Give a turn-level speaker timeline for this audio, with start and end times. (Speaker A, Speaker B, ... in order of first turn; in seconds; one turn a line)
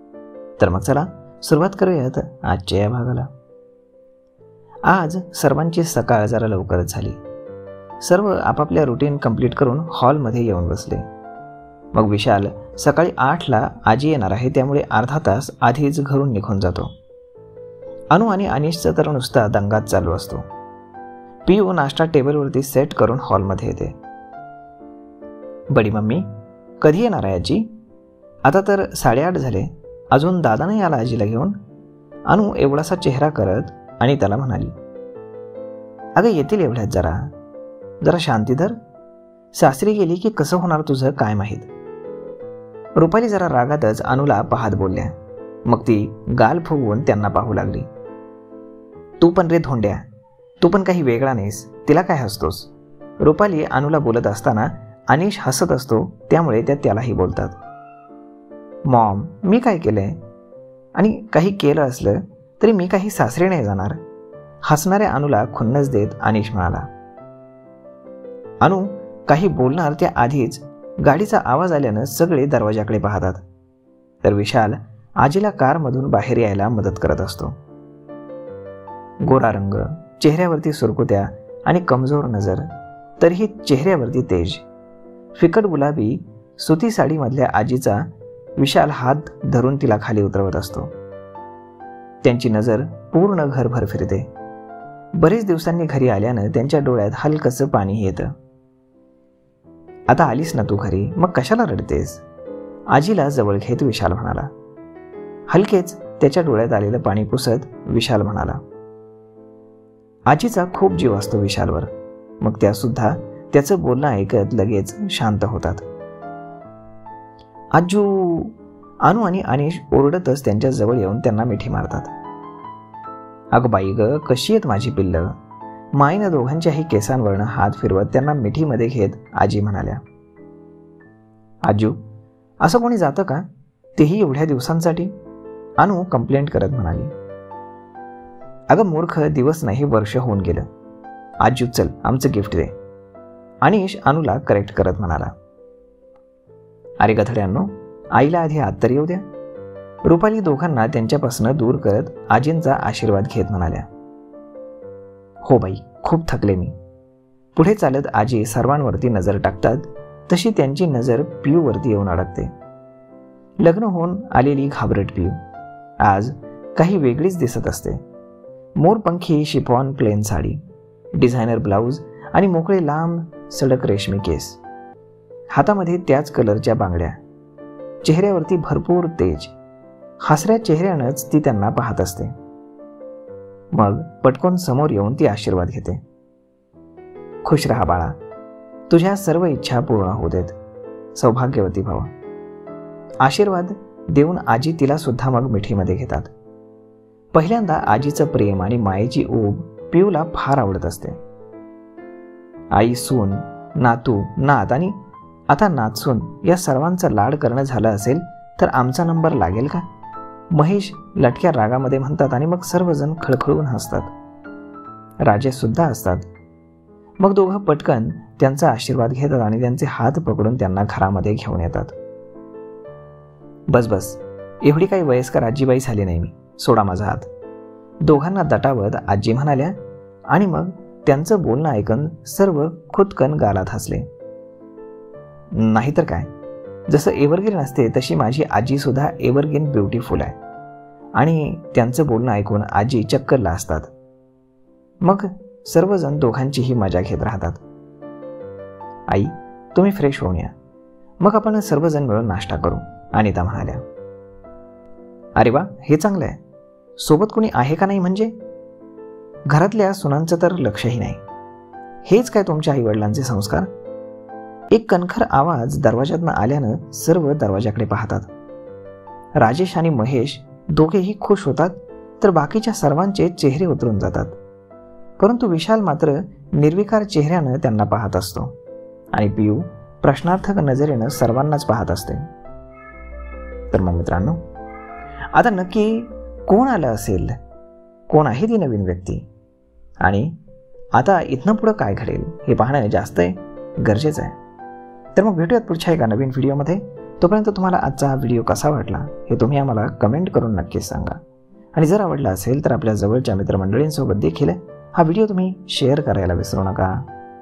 Speaker A: 0.6-3.3
Speaker A: 4.8-7.2
Speaker A: 8.0-11.0
Speaker A: 11.9-16.9
Speaker A: 18.1-20.4
Speaker A: 21.4-23.9
Speaker A: 25.7-26.3
Speaker A: 26.8-27.7
Speaker A: 28.4-31.6
Speaker A: 32.3-34.7
Speaker A: 36.1-37.3
Speaker A: 38.0-38.8
Speaker A: 39.5-41.7
Speaker A: 43.0-45.1
Speaker A: 45.6-47.9
Speaker A: 49.2-50.0
Speaker A: 50.6-57.6
Speaker A: 58.9-60.2
Speaker A: 61.0-64.0
Speaker A: 64.6-66.9
Speaker A: 68.6-73.4
Speaker A: 74.2-77.5
Speaker A: 79.2-82.7
Speaker A: 83.2-84.6
Speaker A: 85.3-90.9
Speaker A: 92.2-94.3
Speaker A: 95.1-98.3
Speaker A: 100.1-102.2
Speaker A: 102.9-104.5
Speaker A: 105.5-108.6
Speaker A: 110.3-115.8
Speaker A: 117.7-122.1
Speaker A: 123.5-125.3
Speaker A: 125.9-130.0
Speaker A: 131.6-132.0
Speaker A: 132.6-135.1
Speaker A: 135.8-137.1
Speaker A: 138.7-140.7
Speaker A: 141.4-142.7
Speaker A: 143.6-145.3
Speaker A: 147.0-149.2
Speaker A: 150.0-153.9
Speaker A: 155.4-156.7
Speaker A: 157.5-162.5
Speaker A: 163.6-165.4
Speaker A: 166.0-168.0
Speaker A: 168.8-170.6
Speaker A: 171.2-174.6
Speaker A: 175.5-177.2
Speaker A: 178.0-179.5
Speaker A: 180.2-182.3
Speaker A: 183.7-186.0
Speaker A: 187.4-188.2
Speaker A: 188.9-190.6
Speaker A: 191.1-192.1
Speaker A: 193.2-196.3
Speaker A: 197.3-201.2
Speaker A: 202.7-205.0
Speaker A: 205.5-209.8
Speaker A: 210.5-214.1
Speaker A: 215.2-216.2
Speaker A: 217.2-221.9
Speaker A: 223.7-227.3
Speaker A: 228.0-229.8
Speaker A: 230.3-234.1
Speaker A: 235.6-236.3
Speaker A: 236.9-240.3
Speaker A: 241.2-243.9
Speaker A: 245.0-247.6
Speaker A: 249.1-250.5
Speaker A: 251.2-253.8
Speaker A: 255.3-256.4
Speaker A: 257.0-258.3
Speaker A: 259.5-261.2
Speaker A: 262.0-263.7
Speaker A: 264.7-268.3
Speaker A: 269.4-274.4
Speaker A: 275.2-278.5
Speaker A: 279.1-282.2
Speaker A: 283.7-284.4
Speaker A: 285.3-287.4
Speaker A: 288.1-289.2
Speaker A: 290.0-290.3
Speaker A: 290.9-294.4
Speaker A: 295.1-301.2
Speaker A: 301.7-307.0